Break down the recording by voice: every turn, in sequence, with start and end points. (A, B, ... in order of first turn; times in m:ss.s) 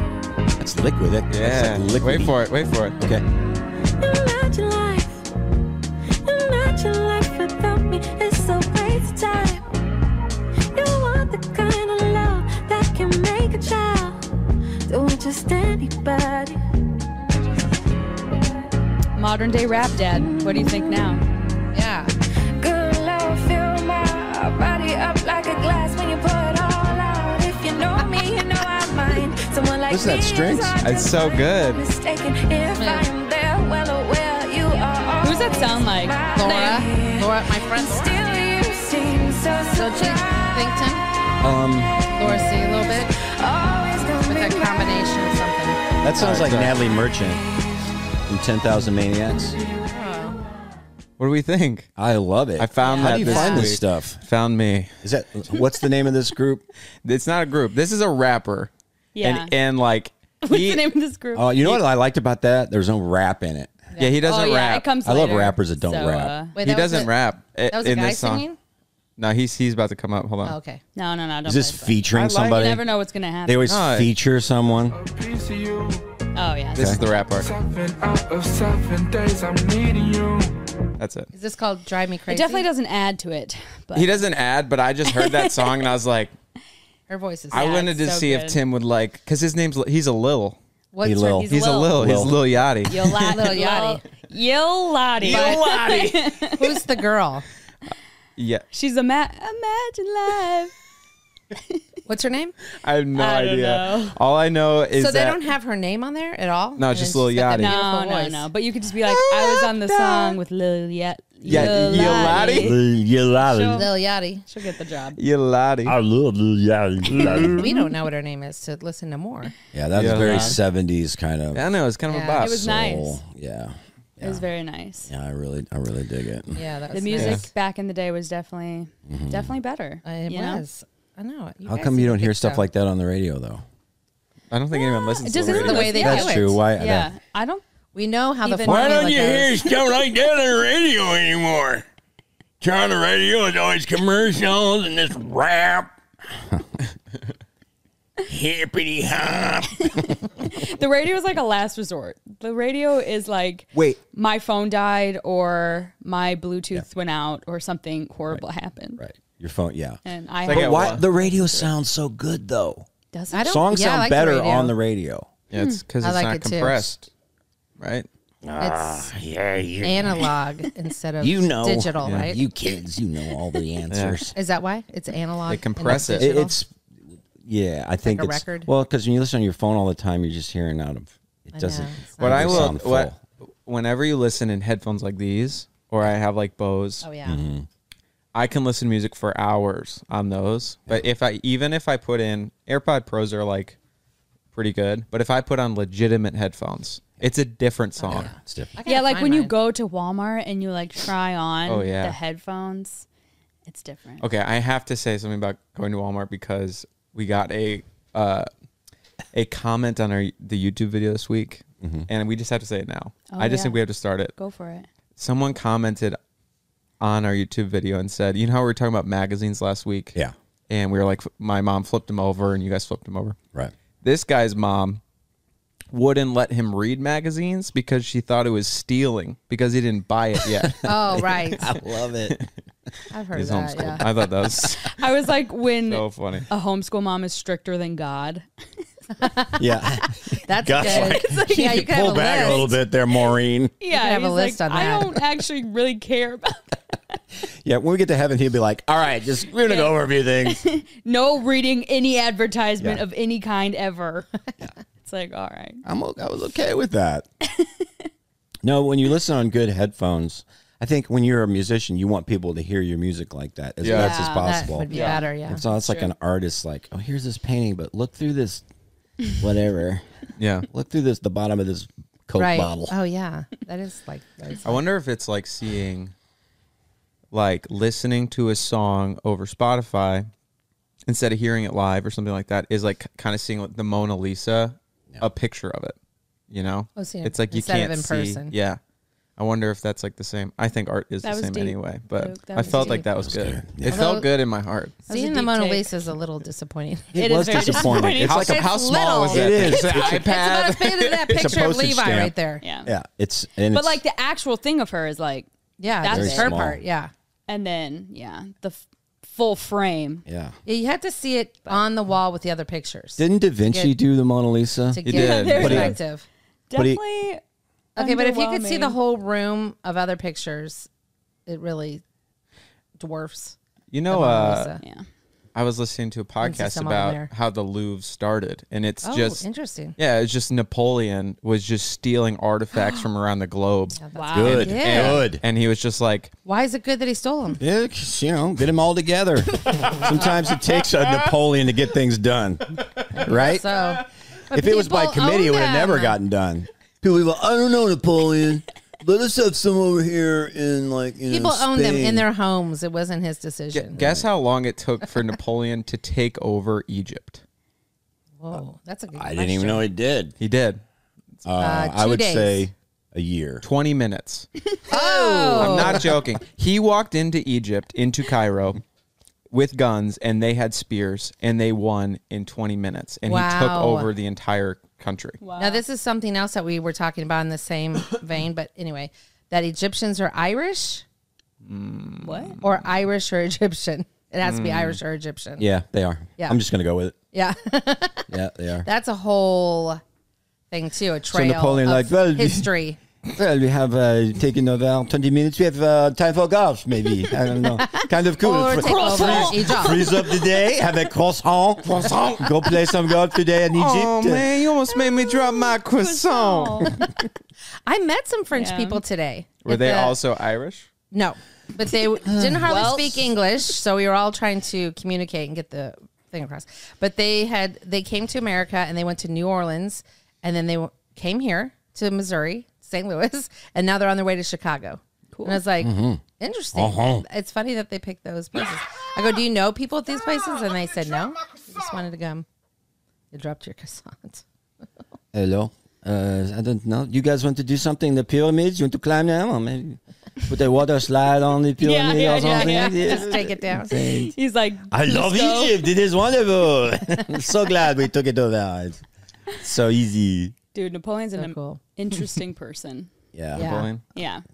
0:00.6-0:02.3 A
0:01.3-0:03.0 B
0:03.0-0:03.2 A
0:04.0-0:05.2 C
0:06.2-0:09.6 C
0:10.7-0:14.2 C
0:14.9-0:16.6 C
0:19.2-0:21.2 D
0:20.3-0:20.7 C
0:21.7-0:22.1 E
0:22.6-0:40.9 C
0:29.9-0:30.8 A
0:30.8-0:31.8 B
0:32.7-0:33.1 E
0:35.2-0:36.3 D
0:36.4-0:38.4 E
0:39.7-0:41.0 E
0:41.4-0:42.1 A
0:42.2-0:43.1 E
0:43.2-0:45.1 C
0:44.2-0:45.8 E
0:46.0-0:47.4 A
0:46.2-0:46.8 B
0:48.3-0:49.6 A
0:49.9-0:50.4 E
0:51.2-0:51.9 B
0:52.0-0:54.2 A
0:52.6-0:54.9 B
0:52.8-0:53.6 D
0:53.1-0:53.7 E
0:55.0-0:56.6 A
0:57.0-1:00.9 B
0:59.1-0:59.5 D
1:00.4-1:01.7 D
1:01.3-1:03.8 A
1:04.0-1:04.9 B
1:04.2-1:06.6 D
1:05.0-1:06.3 A
1:06.6-1:07.1 E
1:06.6-1:08.4 B
1:07.7-1:08.6 E
1:09.2-1:10.6 B
1:10.4-1:10.8 E
1:10.9-1:13.6 D
1:11.4-1:12.9 A
1:13.4-1:15.0 A
1:13.7-1:14.1 B
1:16.3-1:17.3 D
1:16.7-1:17.5 B
1:17.8-1:19.9 F
1:21.0-1:21.3 B
1:21.3-1:22.7 E
1:22.3-1:24.3 D
1:23.9-1:26.3 B
1:25.1-1:25.5 D
1:27.1-1:27.7 E
1:27.5-1:30.6 B
1:27.5-1:28.6 D
1:30.9-1:31.8 E
1:31.0-1:32.4 A
1:31.4-1:33.1 B
1:31.4-1:31.9 D
1:32.8-1:36.8 D
1:33.2-1:34.0 E
1:35.2-1:35.8 E
1:36.4-1:37.4 E
1:38.4-1:38.6 B
1:38.7-1:40.7 D
1:42.1-1:42.6 E
1:42.8-1:45.4 B
1:43.2-1:44.2 D
1:44.9-1:48.5 E
1:46.8-1:47.8 B
1:47.6-1:53.9 D
1:49.1-1:50.0 A
1:51.4-1:53.9 A
1:51.5-1:52.8 B
1:53.8-1:54.5 E
1:54.5-1:55.2 D
1:55.2-1:56.0 B
1:55.8-1:57.7 A
1:57.1-1:57.5 B
1:57.3-1:59.5 E
1:59.7-2:01.6 A
2:00.0-2:00.6 B
2:01.5-2:02.6 B
2:02.1-2:02.4 E
2:02.4-2:03.2 D
2:02.4-2:04.4 A
2:04.2-2:05.1 D
2:05.1-2:06.6 A
2:06.5-2:07.4 E
2:06.9-2:10.6 D
2:07.2-2:07.4 B
2:09.1-2:09.5 A
2:10.0-2:12.6 E
2:11.7-2:13.6 A
2:14.5-2:16.0 B
2:14.8-2:17.6 D
2:15.4-2:16.6 E
2:15.8-2:17.1 A
2:17.9-2:19.6 E
2:18.4-2:19.5 D
2:18.6-2:21.8 A
2:22.6-2:25.9 A
2:28.2-2:30.3 A
2:29.9-2:39.0 D
2:33.7-2:34.0 A
2:39.0-2:42.8 A
2:40.0-2:41.7 D
2:40.5-2:41.0 B
2:43.1-2:43.6 D
2:43.3-2:44.8 E
2:43.4-2:45.3 A
2:45.5-2:47.1 B
2:45.5-2:45.8 D
2:46.0-2:46.9 E
2:47.8-2:48.1 B
2:48.4-2:50.2 A
2:48.6-2:49.1 E
2:49.8-2:52.4 E
2:51.2-2:54.4 A
2:52.0-2:52.3 B
2:53.9-2:54.2 B
2:54.3-2:56.6 E
2:55.5-2:56.3 B
2:55.8-2:56.7 A
2:57.4-3:03.2 A
2:58.0-2:58.7 E
3:01.5-3:02.7 E
3:02.2-3:03.1 B
3:03.6-3:07.1 B
3:07.0-3:07.4 E
3:07.2-3:07.7 A
3:08.3-3:13.8 B
3:14.5-3:18.3 B
3:18.0-3:19.5 E
3:18.1-3:18.7 A
3:18.8-3:23.1 D
3:21.7-3:22.2 B
3:23.7-3:24.3 D
3:24.2-3:28.5 B
3:29.3-3:34.3 B
3:31.8-3:32.1 A
3:33.3-3:33.8 D
3:34.3-3:34.9 D
3:35.2-3:36.2 B
3:37.0-3:40.1 B
3:40.7-3:43.4 B
3:44.0-3:45.0 B
3:45.9-3:50.8 B
3:50.5-3:52.4 A
3:50.8-3:51.8 E
3:53.1-3:54.1 E
3:53.3-3:54.9 B
3:54.8-3:58.4 D
3:55.9-3:56.5 B
3:59.2-3:59.5 D
3:59.2-3:59.6 E
3:59.6-4:03.8 A
4:00.4-4:02.8 E
4:00.8-4:01.9 D
4:03.8-4:06.8 D
4:03.9-4:05.3 E
4:07.6-4:10.6 A
4:09.6-4:09.9 D
4:10.4-4:14.3 D
4:15.0-4:15.8 D
4:15.8-4:17.2 A
4:18.6-4:28.6 A
4:23.8-4:24.2 B
4:23.9-4:25.6 E
4:23.9-4:26.1 D
4:29.2-4:32.9 A
4:30.4-4:30.7 B
4:32.3-4:34.8 E
4:34.6-4:36.1 B
4:37.3-4:40.3 B
4:41.1-4:46.0 B
4:46.5-4:48.8 B
4:46.9-4:48.5 E
4:49.4-4:54.9 B
4:51.2-4:53.0 D
4:52.6-4:53.1 E
4:53.2-4:54.0 A
4:53.8-4:54.3 E
4:55.1-5:02.6 E
4:55.1-4:55.9 D
4:57.1-5:00.3 A
4:57.2-4:58.4 D
4:58.2-5:01.6 B
5:01.3-5:04.0 A
5:02.6-5:02.9 D
5:03.7-5:06.6 D
5:05.8-5:07.1 E
5:06.1-5:06.8 A
5:07.5-5:10.2 D
5:10.2-5:10.6 A
5:10.6-5:14.0 E
5:13.2-5:16.0 A
5:14.9-5:16.2 E
5:15.0-5:16.0 B
5:15.1-5:16.0 D
5:16.7-5:17.4 D
5:16.8-5:17.0 A
5:18.0-5:20.9 E
5:18.0-5:19.0 D
5:21.5-5:22.0 E
5:23.0-5:23.6 E
5:23.9-5:24.7 B
5:24.1-5:24.8 E
5:25.6-5:29.4 B
5:26.4-5:27.3 E
5:29.0-5:30.0 E
5:30.0-5:36.3 B
5:34.0-5:35.3 E
5:34.1-5:34.7 D
5:34.3-5:35.4 A
5:36.4-5:37.6 E
5:37.6-5:44.0 A
5:43.1-5:46.2 E
5:44.5-5:52.3 A
5:51.2-5:54.2 E
5:53.7-5:57.4 B
5:58.4-5:59.9 E
5:59.1-6:00.3 A
6:00.4-6:00.8 B
6:01.4-6:03.6 A
6:01.6-6:02.7 E
6:03.6-6:04.5 B
6:04.9-6:05.9 D
6:04.9-6:06.1 E
6:05.5-6:08.8 B
6:09.5-6:15.4 B
6:13.2-6:14.1 E
6:15.4-6:15.8 D
6:15.6-6:21.0 E
6:21.6-6:22.6 B
6:22.2-6:22.6 D
6:22.6-6:25.7 E
6:24.4-6:25.0 B
6:25.6-6:27.2 A
6:27.3-6:28.3 E
6:28.3-6:28.9 A
6:28.8-6:30.0 E
6:30.7-6:33.0 E
6:31.3-6:32.7 A
6:33.3-6:44.4 A
6:38.4-6:40.2 E
6:38.6-6:40.4 D
6:43.7-6:46.9 B
6:44.9-6:47.1 D
6:47.8-6:50.2 E
6:48.6-6:49.0 D
6:49.6-6:50.9 B
6:51.1-7:12.4 E
6:52.2-6:53.1 A
6:52.7-6:53.2 D
7:05.3-7:05.6 D
7:05.8-7:07.2 A
7:13.3-7:14.4 E
7:15.3-7:24.3 A
7:21.8-7:25.8 D
7:22.4-7:24.1 E
7:24.9-7:30.6 A
7:30.7-7:33.1 D
7:31.4-7:31.8 E
7:33.3-7:33.8 A
7:33.5-7:33.9 E
7:33.6-7:34.0 B
7:34.1-7:34.4 D